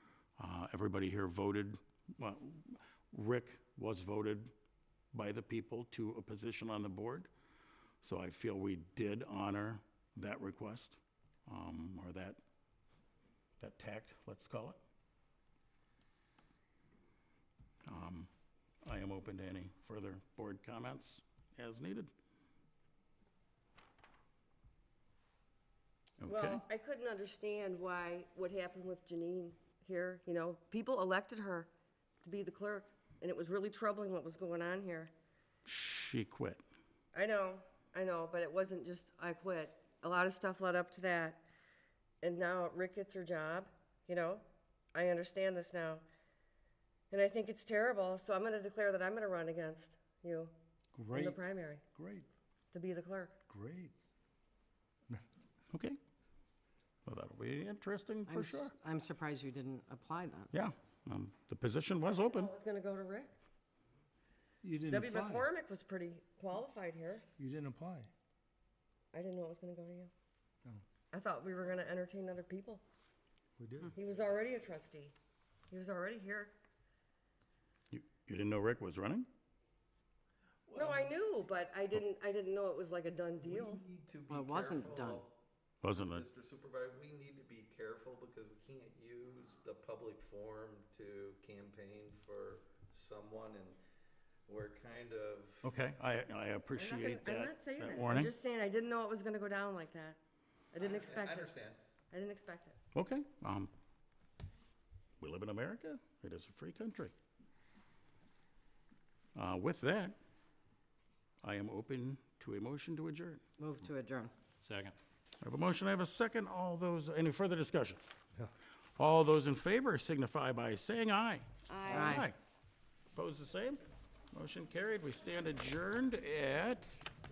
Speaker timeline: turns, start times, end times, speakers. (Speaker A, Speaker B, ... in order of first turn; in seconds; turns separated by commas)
Speaker A: 0.4-4.5, Speaker A: 5.1-7.3, Speaker A: 8.0-12.4, Speaker A: 13.6-14.8, Speaker A: 17.8-18.3, Speaker A: 18.8-22.1, Speaker A: 26.2-26.6, Speaker B: 26.2-31.7, Speaker B: 32.2-35.1, Speaker A: 35.6-36.6, Speaker B: 37.1-41.5, Speaker B: 42.2-46.0, Speaker B: 47.1-50.5, Speaker C: 50.9-51.4, Speaker B: 51.1-51.8, Speaker C: 51.9-52.3, Speaker B: 52.7-53.4, Speaker C: 53.5-53.9, Speaker A: 55.7-56.0, Speaker A: 57.0-58.7, Speaker D: 58.3-60.5, Speaker A: 60.5-62.5, Speaker B: 62.0-63.4, Speaker C: 64.6-65.5, Speaker B: 64.9-67.2, Speaker C: 67.4-68.1, Speaker B: 69.1-70.1, Speaker B: 71.1-72.8, Speaker C: 73.6-73.9, Speaker B: 73.9-75.1, Speaker B: 75.7-76.5, Speaker A: 77.9-79.3, Speaker E: 80.7-81.1, Speaker B: 80.7-83.8, Speaker E: 83.4-85.3, Speaker D: 84.3-85.2, Speaker A: 85.8-86.2, Speaker E: 86.0-93.8, Speaker E: 94.5-95.7, Speaker A: 95.6-98.3, Speaker B: 96.8-100.2, Speaker B: 100.7-101.5, Speaker E: 100.8-101.8, Speaker B: 102.1-102.8, Speaker A: 102.9-103.7, Speaker A: 105.2-107.1, Speaker A: 109.3-110.2, Speaker A: 111.4-113.4, Speaker D: 113.6-114.3, Speaker A: 115.4-118.0, Speaker A: 119.0-122.3, Speaker B: 121.7-122.3, Speaker D: 121.9-122.3, Speaker A: 123.1-127.0